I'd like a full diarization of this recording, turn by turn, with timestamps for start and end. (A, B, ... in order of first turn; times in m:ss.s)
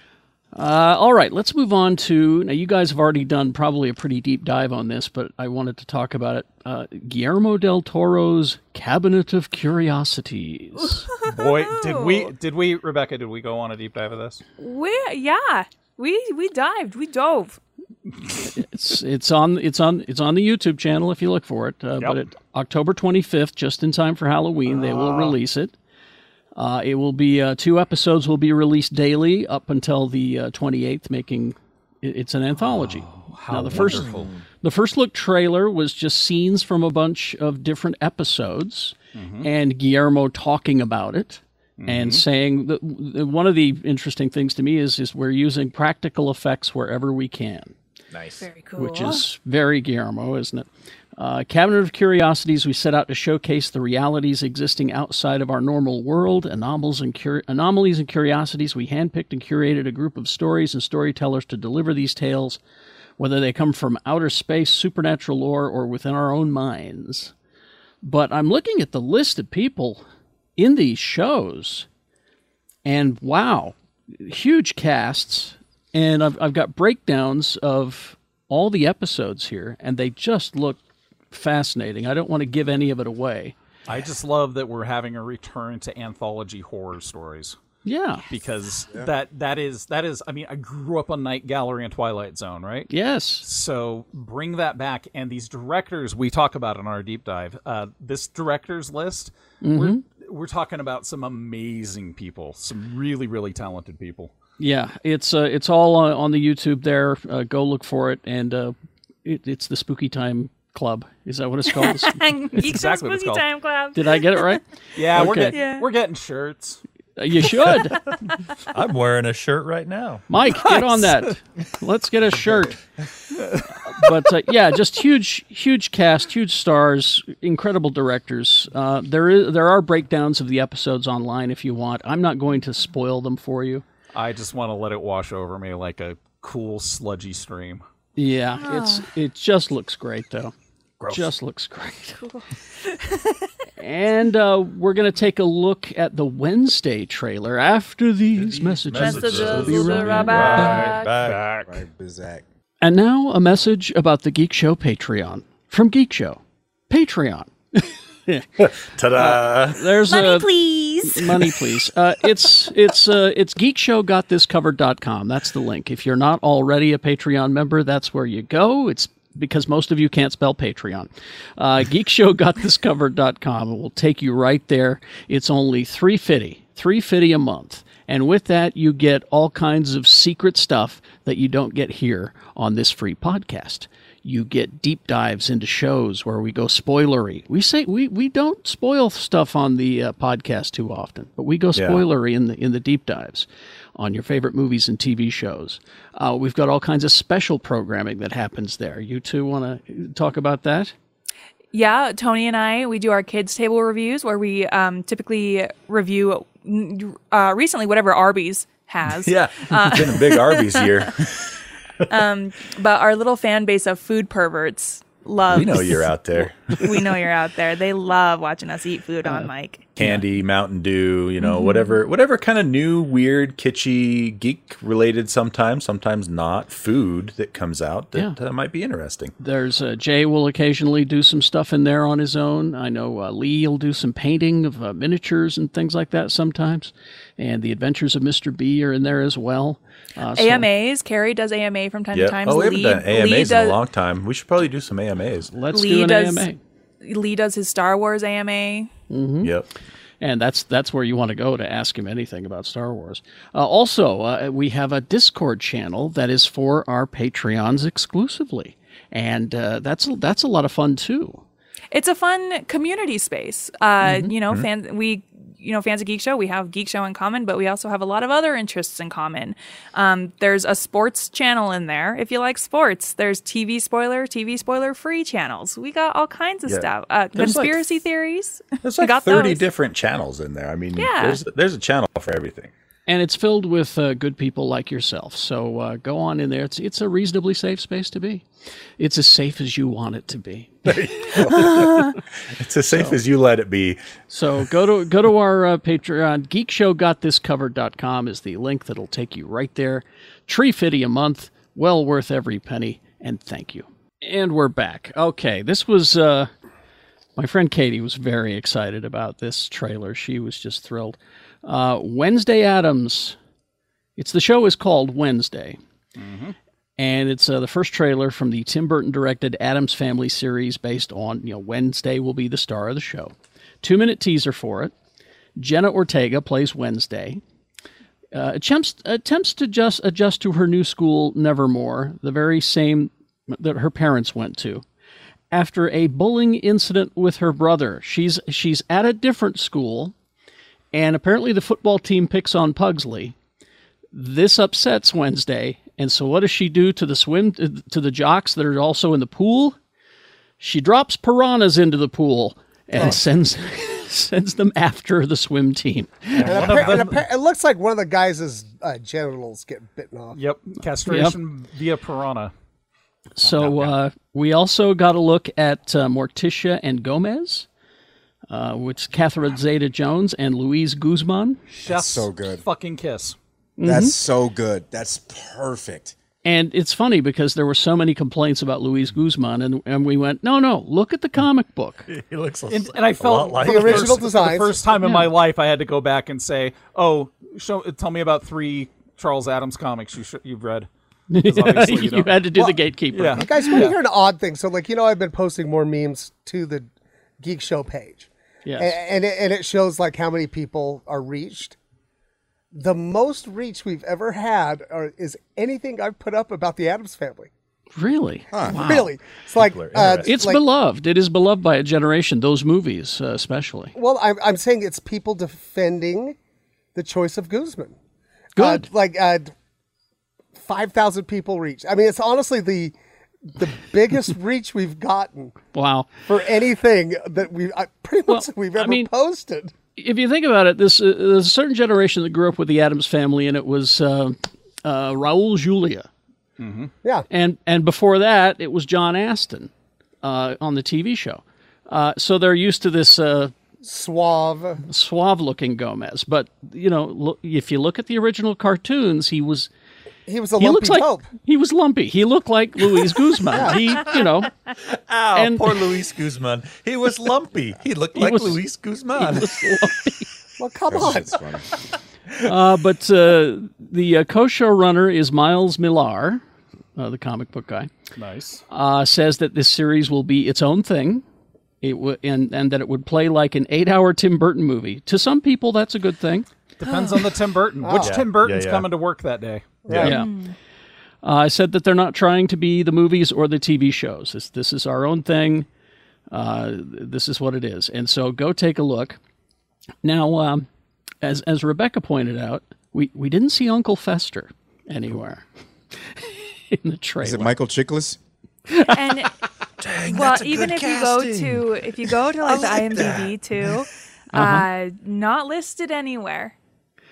0:00.5-0:11.1 A
0:11.1-0:12.3 B
0:11.3-0:14.4 C
0:14.6-0:17.6 B
0:18.5-0:25.7 A
0:26.6-0:34.1 A
0:32.6-0:34.3 C
0:33.7-0:34.4 D
0:34.6-0:47.7 A
0:39.1-0:39.5 C
0:41.8-0:42.2 C
0:48.1-0:48.4 D
0:48.4-0:49.2 B
0:48.8-1:02.6 A
1:03.2-1:07.3 A
1:08.0-1:10.0 A
1:10.6-1:11.9 A
1:12.8-1:20.8 A
1:21.3-1:23.5 A
1:23.9-1:27.6 C
1:27.8-1:28.2 A
1:28.3-1:32.9 C
1:32.9-1:33.4 A
1:33.4-1:44.3 C
1:39.6-1:40.0 A
1:44.6-1:52.2 A
1:51.7-1:54.6 B
1:52.6-1:53.4 C
1:53.9-1:55.6 A
1:54.9-1:56.8 C
1:55.4-1:55.9 B
1:57.2-1:58.0 A
1:58.7-2:00.2 D
2:00.3-2:02.8 A
2:03.3-2:03.6 C
2:03.8-2:13.8 A
2:14.1-2:17.8 C
2:18.2-2:20.5 A
2:18.6-2:19.0 B
2:21.0-2:21.3 C
2:21.1-2:22.2 A
2:22.2-2:23.4 B
2:23.8-2:30.8 A
2:28.4-2:31.6 D
2:28.9-2:31.2 B
2:30.7-2:31.6 C
2:31.7-2:32.4 E
2:32.8-2:38.5 A
2:38.6-2:39.9 D
2:39.1-2:40.5 A
2:40.0-2:41.4 B
2:41.0-3:20.9 A
3:11.7-3:12.0 D
3:21.7-3:31.1 B
3:29.0-3:31.6 D
3:32.1-3:39.9 B
3:35.5-3:37.2 D
3:39.2-3:40.2 A
3:40.0-3:49.3 D
3:41.4-3:42.0 B
3:49.4-4:00.7 A
4:00.3-4:03.8 B
4:02.1-4:05.5 D
4:05.5-4:06.6 A
4:05.7-4:06.5 B
4:07.0-4:08.9 B
4:09.1-4:09.5 A
4:09.4-4:09.7 D
4:10.2-4:21.4 A
4:21.9-4:39.6 B
4:24.0-4:24.3 A
4:36.6-4:37.8 D
4:38.8-4:42.7 D
4:40.9-4:41.4 B
4:43.1-4:48.4 A
4:49.0-4:51.0 A
4:50.8-4:54.0 D
4:52.9-4:53.2 A
4:54.3-5:06.5 A
5:07.4-5:13.4 A
5:14.2-5:15.8 A
5:16.2-5:16.6 C
5:17.0-5:24.9 A
5:25.6-5:27.4 A
5:28.3-5:34.8 A
5:35.5-5:40.1 A
5:40.9-5:43.3 A
5:44.1-5:49.8 A
5:50.6-5:56.7 A
5:56.4-5:57.2 C
5:56.4-5:57.0 D
5:56.4-6:00.4 F
6:00.3-6:02.5 C
6:01.0-6:01.4 A
6:03.4-6:07.7 A
6:03.6-6:03.9 D
6:08.5-6:11.6 A
6:11.7-6:13.4 C
6:11.8-6:12.6 E
6:13.8-6:14.2 A
6:13.8-6:16.1 E
6:16.4-6:22.1 A
6:22.1-6:24.3 D
6:22.7-6:32.4 C
6:23.6-6:24.8 F
6:25.0-6:25.3 A
6:31.3-6:33.9 A
6:33.1-6:34.0 C
6:33.3-6:36.9 F
6:37.4-6:41.8 F
6:38.6-6:38.9 A
6:42.7-6:47.5 F
6:48.0-6:49.1 A
6:48.5-6:48.8 E
6:48.6-6:50.6 F
6:49.6-6:50.3 D
6:50.2-6:53.9 A
6:53.9-6:56.4 F
6:56.9-6:57.9 F
6:58.6-6:58.9 A
6:58.6-6:59.5 F
7:00.6-7:02.9 F
7:03.5-7:05.6 F
7:05.7-7:06.1 A
7:06.2-7:09.7 F
7:08.3-7:09.1 A
7:10.0-7:16.1 A
7:16.6-7:16.9 C
7:17.3-7:19.7 A
7:20.2-7:23.5 A
7:23.8-7:24.8 F
7:24.8-7:29.7 A
7:30.3-7:31.3 F
7:30.6-7:34.5 A
7:33.5-7:33.8 F
7:34.9-7:39.6 D
7:35.3-7:35.8 A
7:38.2-7:38.6 A
7:39.2-7:40.3 A
7:40.6-7:41.4 F
7:40.9-7:41.6 E
7:42.4-7:46.4 A
7:47.0-7:47.9 A
7:48.1-7:48.6 C
7:48.7-7:51.2 A
7:51.8-7:56.5 A
7:56.8-7:59.6 C
7:56.8-7:57.2 B
7:57.8-7:58.2 F
7:58.0-7:58.8 D
7:59.8-8:00.2 F
7:59.9-8:00.1 D
8:00.0-8:00.3 A
8:00.0-8:00.5 B
8:01.2-8:05.6 A
8:06.3-8:09.2 A
8:10.0-8:10.7 A
8:11.2-8:15.4 A
8:16.0-8:17.5 A
8:17.2-8:18.2 E
8:18.8-8:19.3 B
8:19.8-8:23.7 D
8:20.0-8:26.5 B
8:24.3-8:24.7 A